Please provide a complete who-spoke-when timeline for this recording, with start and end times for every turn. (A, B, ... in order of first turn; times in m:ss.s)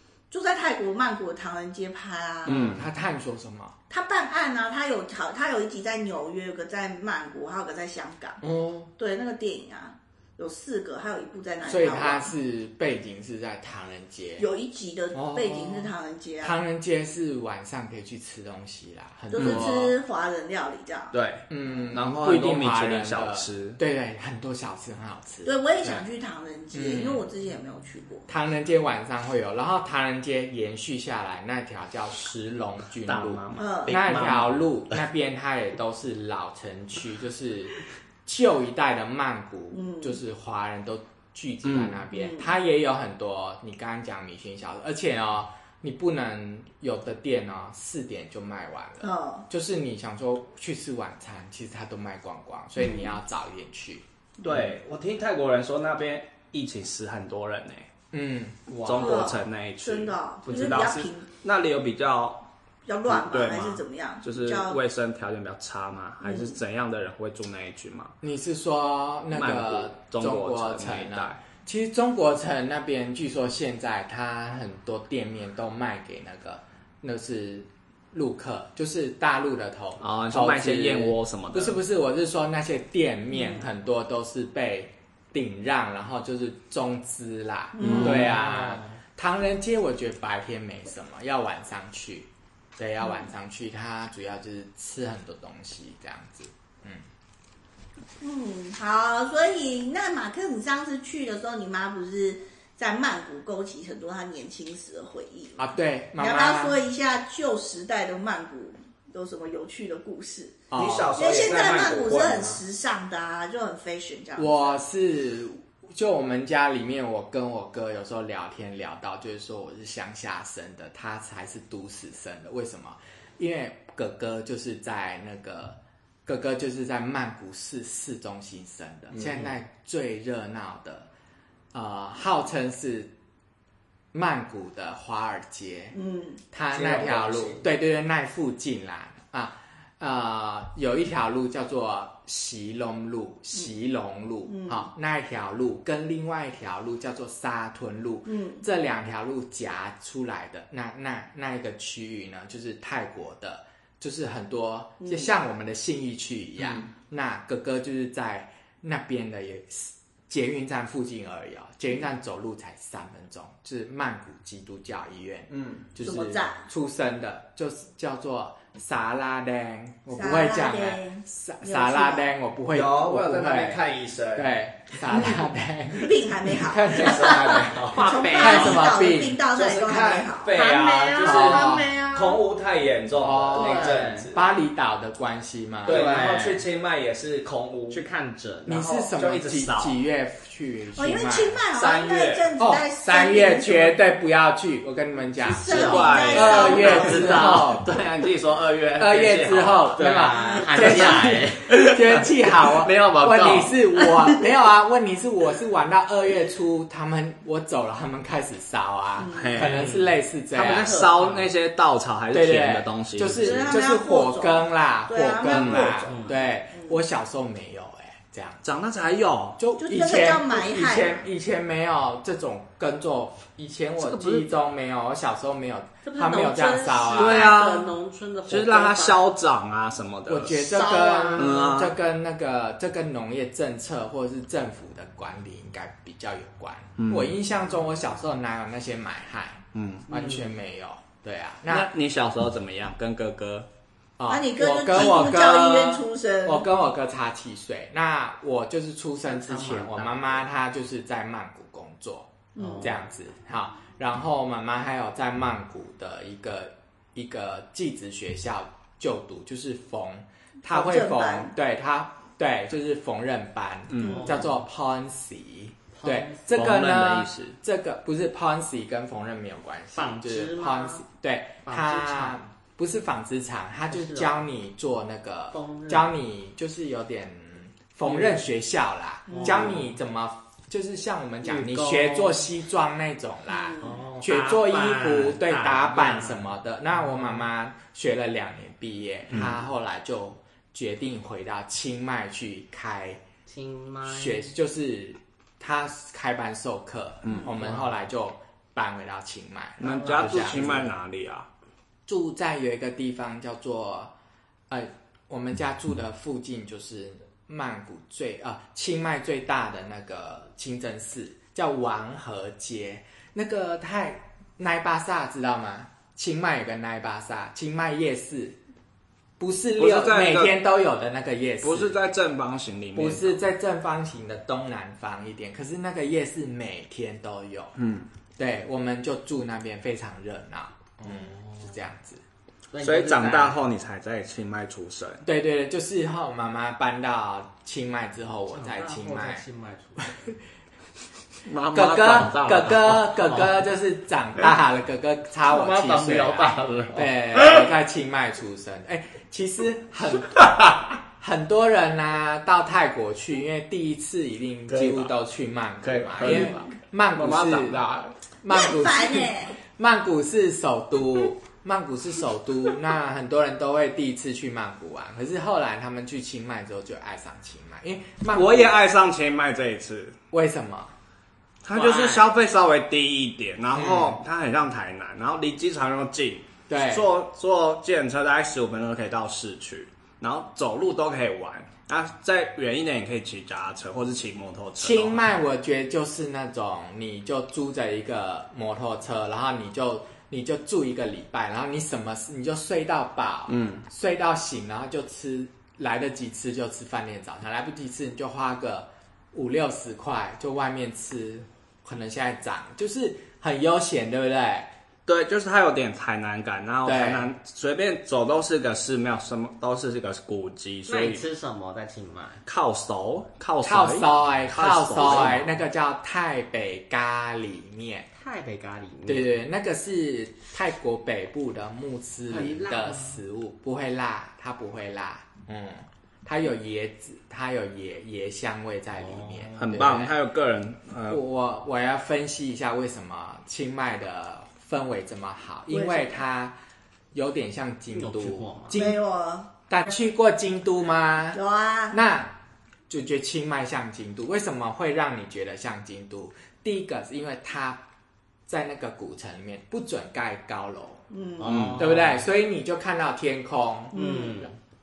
0:00.3-0:02.7 A
0:02.4-0:03.8 B
0:02.4-0:02.9 C
0:03.9-0:08.4 A
0:08.4-0:08.9 B
0:09.0-0:12.3 A
0:11.7-0:14.4 B
0:14.4-0:16.6 A
0:15.1-0:20.0 B
0:19.3-0:21.1 A
0:19.4-0:19.7 C
0:21.1-0:23.8 C
0:21.5-0:25.5 B
0:25.4-0:28.3 A
0:26.7-0:27.2 B
0:28.3-0:54.7 B
0:33.1-0:35.0 C
0:33.6-0:34.0 A
0:39.7-0:40.2 A
0:41.6-0:42.0 C
0:42.1-0:42.5 A
0:49.0-0:49.5 A
0:52.8-0:53.2 A
0:54.4-0:57.9 C
0:58.1-0:59.2 B
0:58.7-1:02.5 C
0:58.9-1:01.2 A
1:02.9-1:04.8 A
1:03.1-1:08.1 C
1:06.2-1:06.6 A
1:08.2-1:37.0 B
1:09.3-1:11.4 C
1:20.0-1:21.8 C
1:23.3-1:23.6 A
1:27.7-1:28.3 A
1:27.9-1:28.4 C
1:27.9-1:28.9 D
1:33.0-1:33.3 A
1:38.2-1:45.7 A
1:45.6-1:46.8 B
1:46.2-1:50.6 A
1:50.7-1:51.2 B
1:50.8-1:52.6 C
1:51.1-1:54.7 A
1:54.4-2:11.1 B
2:09.1-2:09.5 C
2:11.7-2:13.1 B
2:14.1-2:16.0 B
2:15.9-2:16.4 A
2:16.5-2:53.8 B
2:16.7-2:17.6 C
2:24.5-2:24.9 A
2:28.2-2:28.6 A
2:35.0-2:35.3 A
2:36.6-2:36.9 C
2:45.5-2:45.9 C
2:46.0-2:46.7 A
2:50.1-2:52.3 A
2:52.7-2:54.5 C
2:54.4-3:00.2 B
2:55.9-3:00.5 A
2:56.9-2:58.6 C
2:57.8-2:59.1 D
2:59.5-3:04.5 C
3:00.5-3:02.4 D
3:01.2-3:01.9 B
3:03.2-3:06.2 B
3:03.5-3:04.3 D
3:05.8-3:08.0 C
3:05.9-3:06.6 D
3:07.9-3:09.1 D
3:08.7-3:11.6 B
3:09.2-3:10.0 C
3:11.0-3:14.0 A
3:11.7-3:12.5 C
3:12.6-3:17.9 B
3:15.5-3:17.3 A
3:15.6-3:20.1 C
3:15.7-3:17.8 D
3:19.0-3:31.1 B
3:20.0-3:21.7 D
3:20.5-3:21.0 A
3:20.8-3:23.7 C
3:22.9-3:23.9 D
3:29.2-3:29.7 A
3:29.3-3:33.8 C
3:29.7-3:31.5 D
3:32.3-3:38.6 B
3:33.4-3:37.0 A
3:35.4-3:36.2 C
3:36.1-3:36.4 D
3:38.6-3:39.6 C
3:39.6-3:47.6 B
3:39.8-3:41.2 A
3:44.0-3:44.5 C
3:46.0-3:49.2 D
3:47.1-3:48.0 C
3:48.5-3:50.6 C
3:50.3-4:01.9 B
3:50.5-3:51.6 D
3:51.4-3:51.9 C
3:57.0-3:57.3 C
3:59.7-4:00.1 C
4:01.7-4:03.7 C
4:04.2-4:53.2 B
4:04.3-4:06.7 A
4:09.2-4:10.4 D
4:12.5-4:12.9 A
4:12.6-4:12.9 D
4:20.6-4:21.5 A
4:23.9-4:24.3 C
4:24.0-4:24.6 D
4:25.9-4:26.4 D
4:26.5-4:27.6 C
4:29.9-4:31.0 D
4:31.6-4:32.4 D
4:33.9-4:34.3 D
4:35.5-4:36.1 D
4:38.1-4:38.4 D
4:39.3-4:40.0 D
4:39.3-4:39.6 A
4:41.4-4:42.5 D
4:43.5-4:43.9 A
4:43.8-4:46.5 D
4:47.1-4:47.4 D
4:49.3-4:49.6 C
4:53.5-4:54.5 D
4:54.1-5:00.8 B
4:57.2-4:57.7 C
4:59.8-5:01.5 C
4:59.8-5:00.9 D
5:02.1-5:04.1 B
5:04.7-5:18.6 B
5:19.4-5:22.0 B
5:19.8-5:20.5 C
5:21.6-5:23.4 C
5:22.9-5:27.8 B
5:27.8-5:28.1 C
5:28.4-5:32.2 B
5:31.0-5:31.7 D
5:32.7-5:33.6 D
5:32.8-5:35.2 C
5:35.2-5:39.4 B
5:38.5-5:40.2 D
5:40.0-5:40.4 B
5:41.4-5:43.1 C
5:41.7-6:08.8 B
5:45.5-5:47.0 D
5:46.8-5:47.6 C
5:50.2-5:50.8 C
5:54.7-5:55.1 C
5:55.8-5:58.1 C
5:56.2-5:56.6 A
5:58.5-5:59.6 A
6:08.3-6:10.1 C
6:10.3-6:10.9 B
6:11.6-6:25.2 C
6:11.7-6:12.2 B
6:13.7-6:14.2 B
6:16.7-6:17.1 B
6:24.8-6:44.7 B
6:33.5-6:33.8 C
6:45.1-6:51.2 C
6:46.8-6:47.3 B
6:50.9-6:52.4 D
6:52.4-6:55.4 C
6:53.6-6:58.1 B
6:55.0-6:55.5 D
6:58.1-6:59.3 D
6:59.1-7:10.1 B
7:02.3-7:03.2 D
7:09.0-7:09.7 D
7:09.6-7:11.2 C
7:11.1-7:16.6 B
7:15.7-7:16.2 A
7:17.1-7:19.0 B
7:17.9-7:18.9 D
7:18.7-7:19.5 A
7:19.7-7:21.4 B
7:21.3-7:22.0 A
7:21.9-7:22.3 B
7:22.9-7:27.8 B
7:28.5-7:31.0 B
7:31.1-7:31.6 A
7:31.4-7:32.2 D
7:31.5-7:31.8 C
7:31.8-7:34.0 B
7:33.9-7:34.4 A
7:33.9-7:34.5 D